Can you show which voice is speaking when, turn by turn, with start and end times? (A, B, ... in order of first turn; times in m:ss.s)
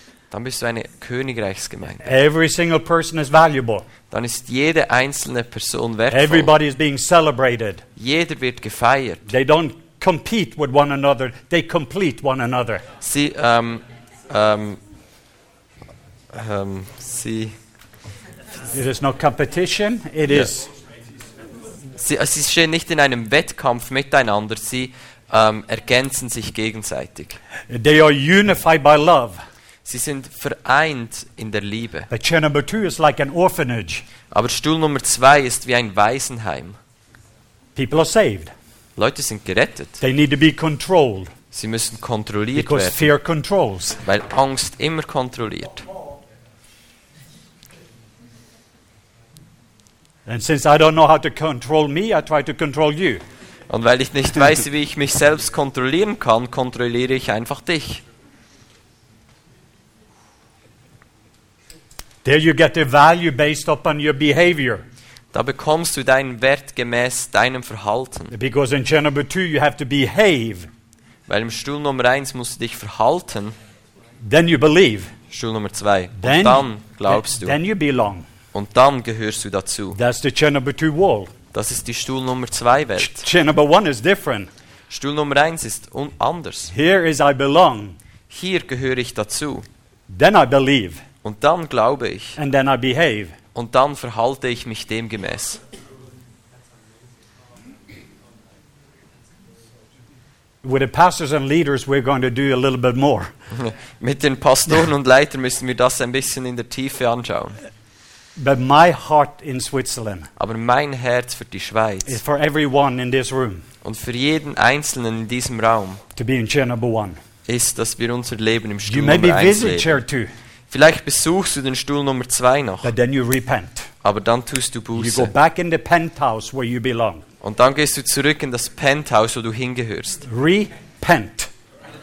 0:00.3-0:02.1 A
0:02.0-0:03.8 B
0:04.1-0:06.5 A
0:06.1-0:07.8 B
0:08.0-0:09.3 A
0:09.3-0:12.8 B
0:13.0-0:14.8 A
0:16.3-0:17.6 A
0:18.7-0:20.7 B
0:22.0-0:27.4 A
0:27.7-0:29.4 B
0:29.8-0:32.1 A
0:32.1-0:34.1 B
0:34.3-0:36.8 A
0:37.8-0:38.5 B
0:39.0-0:40.0 A
0:40.0-0:41.3 B
0:41.5-0:43.1 A
0:42.5-0:44.0 B
0:44.0-0:45.8 A
0:50.2-0:53.2 B
0:53.7-0:58.0 A
1:02.2-1:04.8 B
1:05.3-1:08.3 A
1:08.3-1:10.7 B
1:11.3-1:13.6 A
1:14.2-1:15.1 B
1:15.3-1:17.6 A
1:16.2-1:18.2 B
1:18.5-1:20.0 A
1:19.9-1:21.3 B
1:21.5-1:23.2 A
1:23.0-1:24.5 B
1:24.9-1:26.7 A
1:26.7-1:28.0 B
1:28.3-1:29.7 A
1:30.1-1:31.0 B
1:31.2-1:32.4 A
1:32.4-1:33.4 B
1:33.5-1:35.6 A
1:40.6-1:43.3 B
1:43.5-1:47.6 A
1:48.4-1:50.3 B
1:50.4-1:52.2 A
1:52.0-1:53.6 B
1:53.8-1:56.0 A
1:56.1-1:57.2 B
1:57.5-2:00.0 A
1:58.8-2:00.3 B
2:00.7-2:02.9 A
2:02.8-2:03.9 B
2:04.0-2:05.3 A
2:04.9-2:07.2 B
2:07.4-2:10.2 A
2:10.2-2:11.5 B